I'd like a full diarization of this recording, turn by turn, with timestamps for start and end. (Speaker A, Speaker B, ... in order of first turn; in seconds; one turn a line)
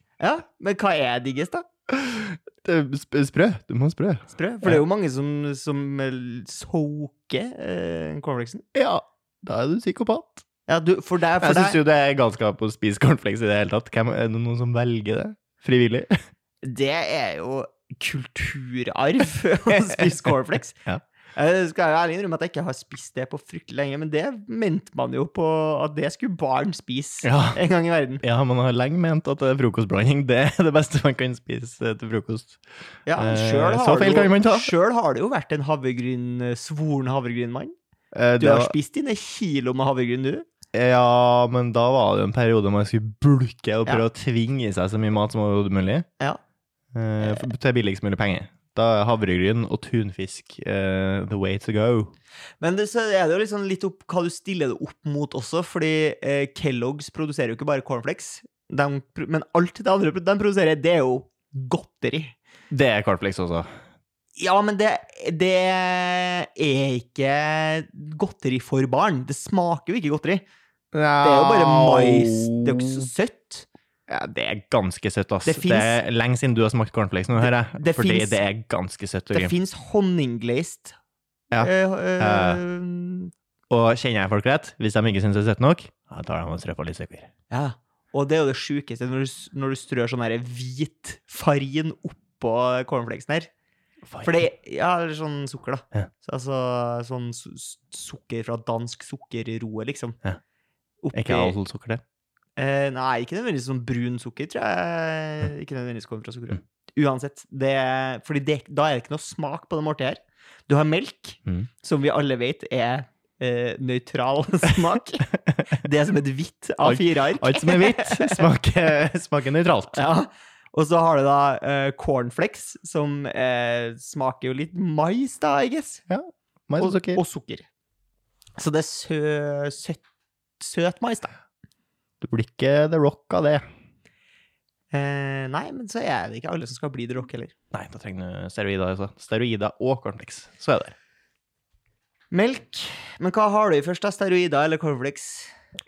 Speaker A: 0.2-1.6
Speaker B: 1.9-4.8
Speaker A: 4.3-8.6
Speaker B: 8.7-10.4
Speaker A: 10.7-11.8
Speaker B: 11.4-16.2
Speaker A: 16.6-20.8
Speaker A: 21.3-28.2
Speaker B: 27.2-27.6
Speaker B: 28.2-32.6
Speaker A: 33.0-37.7
Speaker B: 33.1-34.7
Speaker B: 38.1-38.7
Speaker A: 38.4-40.4
Speaker B: 40.7-46.0
Speaker B: 46.9-52.1
Speaker A: 47.2-47.5
Speaker A: 52.6-62.3
Speaker B: 62.7-63.7
Speaker A: 64.3-70.4
Speaker B: 70.9-73.1
Speaker A: 71.2-73.7
Speaker B: 74.1-79.5
Speaker A: 75.4-76.0
Speaker A: 77.4-78.4
Speaker A: 79.3-80.9
Speaker B: 81.5-82.6
Speaker A: 81.6-83.3
Speaker B: 83.7-87.3
Speaker A: 87.5-93.5
Speaker B: 94.0-94.3
Speaker A: 94.2-100.2
Speaker A: 101.0-101.6
Speaker B: 101.1-102.0
Speaker A: 102.6-118.5
Speaker B: 116.8-120.0
Speaker A: 119.9-126.0
Speaker B: 126.1-127.2
Speaker A: 126.8-127.7
Speaker A: 128.6-130.0
Speaker A: 130.6-131.3
Speaker B: 132.2-133.6
Speaker A: 134.9-137.5
Speaker B: 137.7-140.9
Speaker A: 142.3-145.5